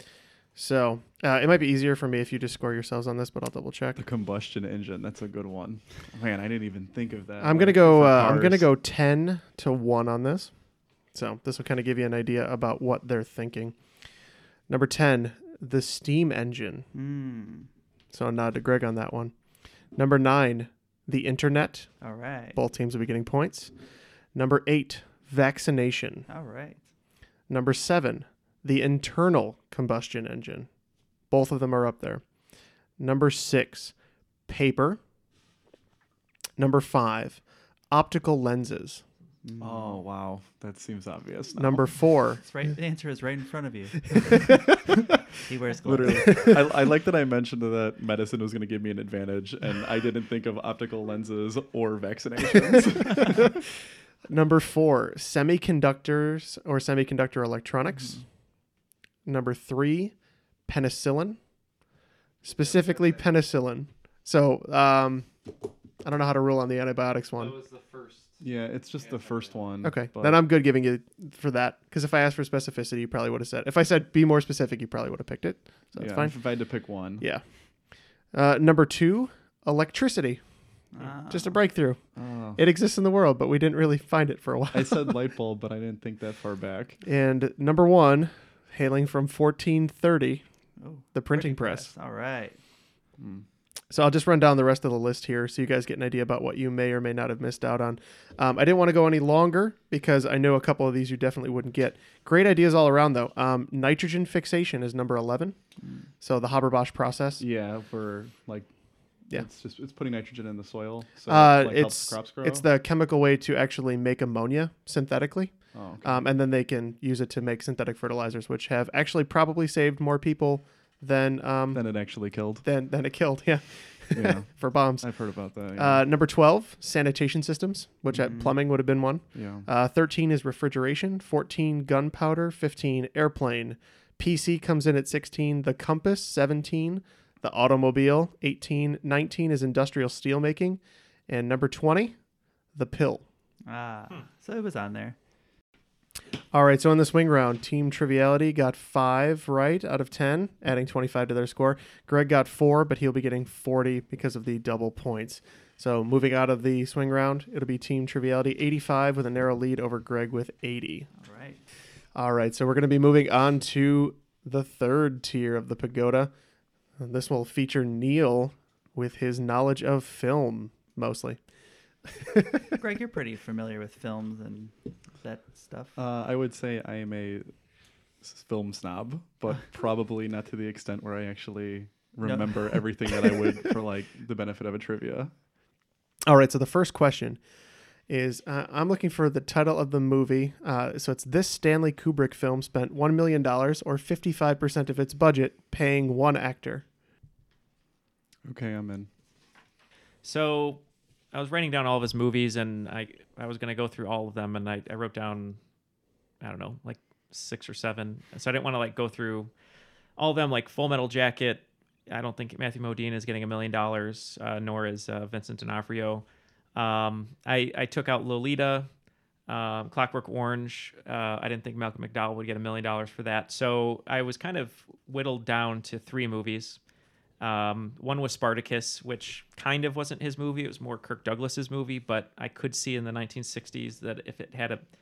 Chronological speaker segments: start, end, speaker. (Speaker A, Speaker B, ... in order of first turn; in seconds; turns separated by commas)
Speaker A: 0.6-4.0, Speaker B: 4.0-8.7, Speaker A: 7.4-10.5, Speaker A: 11.1-13.8, Speaker A: 14.7-16.9, Speaker C: 16.9-17.7, Speaker A: 18.1-19.3, Speaker A: 19.9-21.9, Speaker C: 22.0-22.6, Speaker A: 22.5-23.7, Speaker A: 24.3-26.3, Speaker C: 26.3-26.9, Speaker A: 27.5-30.7, Speaker A: 31.3-32.2, Speaker A: 33.0-34.0, Speaker A: 34.5-35.0, Speaker A: 36.6-39.0, Speaker C: 39.4-40.0, Speaker B: 39.6-41.9, Speaker A: 41.5-42.4, Speaker C: 42.4-44.4, Speaker C: 45.5-46.4, Speaker B: 45.9-53.6, Speaker A: 46.3-46.6, Speaker A: 54.3-58.2, Speaker C: 58.0-58.2, Speaker A: 59.3-60.1, Speaker A: 60.7-61.4, Speaker A: 62.4-65.3, Speaker D: 62.6-63.2, Speaker A: 66.0-67.6, Speaker D: 67.3-68.4, Speaker B: 68.4-70.4, Speaker D: 69.0-69.7, Speaker A: 69.8-76.4, Speaker B: 76.0-77.3, Speaker A: 78.3-80.4, Speaker C: 80.9-81.6, Speaker A: 81.3-82.0, Speaker B: 82.2-82.6, Speaker A: 82.6-85.2, Speaker B: 84.7-87.0, Speaker A: 87.0-90.4, Speaker C: 90.8-92.6, Speaker A: 91.1-91.9, Speaker B: 93.2-93.5, Speaker A: 93.9-105.6, Speaker A: 106.2-107.4, Speaker B: 107.4-108.7, Speaker B: 109.3-112.7, Speaker A: 111.3-121.8, Speaker B: 115.7-116.3, Speaker B: 121.7-122.7, Speaker A: 122.6-125.1, Speaker B: 124.1-126.1, Speaker A: 125.8-142.2, Speaker C: 128.1-128.5, Speaker B: 129.3-129.7, Speaker A: 142.8-143.2, Speaker C: 143.7-145.2, Speaker A: 146.5-161.1, Speaker C: 161.1-161.6, Speaker A: 162.2-166.3, Speaker A: 167.0-171.4, Speaker A: 172.2-172.6, Speaker C: 172.8-176.0, Speaker B: 176.0-177.5, Speaker B: 178.2-185.3, Speaker C: 182.2-182.8, Speaker A: 186.3-187.4, Speaker A: 188.1-196.8, Speaker B: 198.5-199.1, Speaker E: 200.2-200.8, Speaker E: 201.3-205.6, Speaker E: 206.4-209.5, Speaker E: 210.2-218.9, Speaker E: 219.5-226.8, Speaker E: 227.4-234.8